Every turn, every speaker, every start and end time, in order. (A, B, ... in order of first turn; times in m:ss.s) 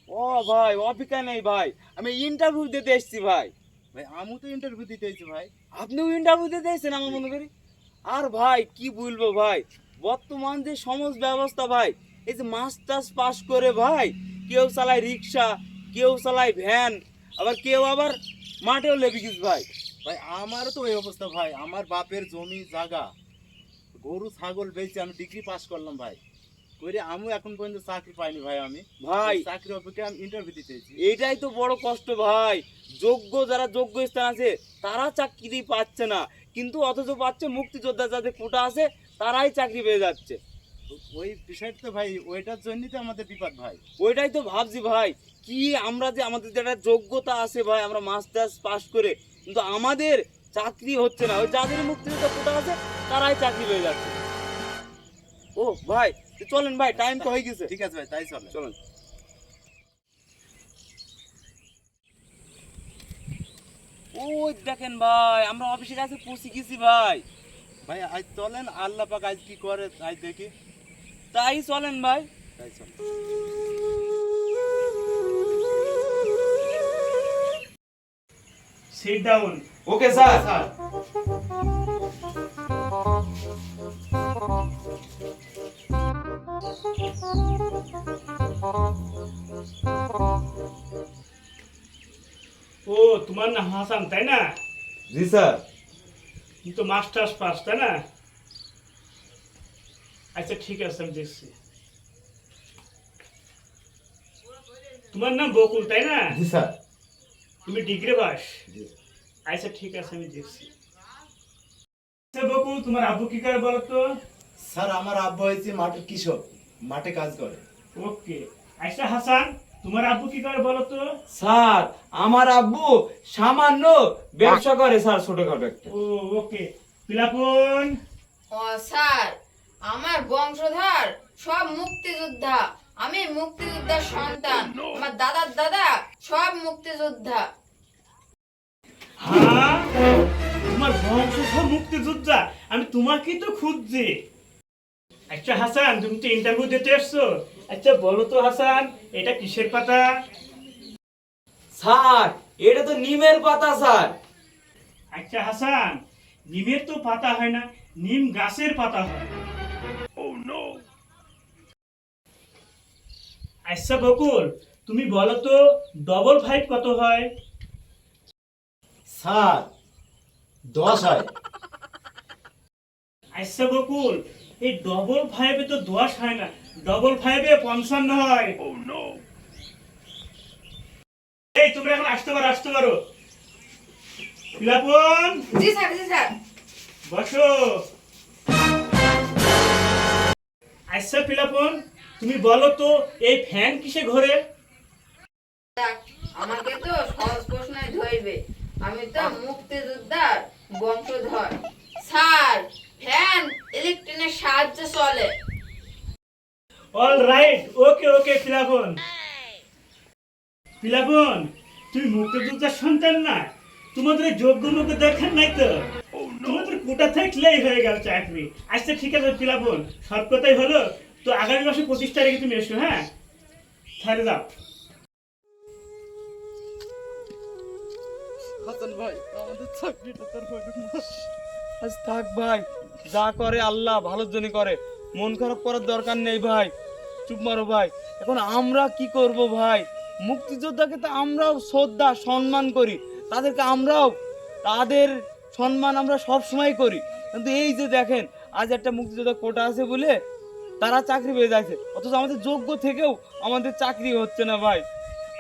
0:00.1-0:03.5 A
0:03.9-0:05.6 B
0:05.7-0:07.5 A
0:08.1-0:19.7 A
0:20.0-0:23.1 B
0:24.0-0:26.2 B
0:26.8-0:31.0 B
0:29.0-0:29.4 A
0:31.0-0:40.4 A
0:40.9-0:43.8 B
0:44.0-0:54.2 A
0:55.6-0:57.7 A
0:56.9-0:58.6 B
0:58.5-0:58.8 A
1:04.1-1:07.2 A
1:07.8-1:10.5 B
1:11.3-1:12.3 A
1:12.6-1:13.0 B
1:18.9-1:19.6 C
1:19.9-1:20.5 A
1:20.1-1:20.7 B
1:32.9-1:34.4 C
1:35.1-1:35.6 A
1:36.6-1:38.0 C
1:40.3-1:41.5 C
1:45.1-1:46.4 C
1:47.7-1:48.6 C
1:49.5-1:50.7 C
1:52.3-1:54.0 C
1:54.6-1:57.6 B
1:58.0-2:01.1 C
2:01.3-2:05.9 A
2:05.9-2:08.0 C
2:08.5-2:09.4 D
2:09.9-2:17.5 D
2:19.2-2:19.9 C
2:20.7-2:24.2 C
2:25.3-2:30.1 C
2:31.8-2:34.2 A
2:35.1-2:39.3 C
2:43.7-2:47.3 C
2:49.1-2:49.7 B
2:50.7-2:51.3 B
2:53.4-2:58.6 C
3:01.6-3:03.0 C
3:04.6-3:05.4 C
3:05.5-3:06.3 D
3:07.1-3:07.8 C
3:10.9-3:14.4 C
3:15.8-3:25.3 D
3:27.0-3:29.0 C
3:30.8-3:35.8 C
3:36.4-3:43.1 C
3:44.0-3:44.5 C
3:48.6-3:51.3 B
3:51.8-3:56.7 A
3:57.3-4:10.2 A
4:10.8-4:14.8 A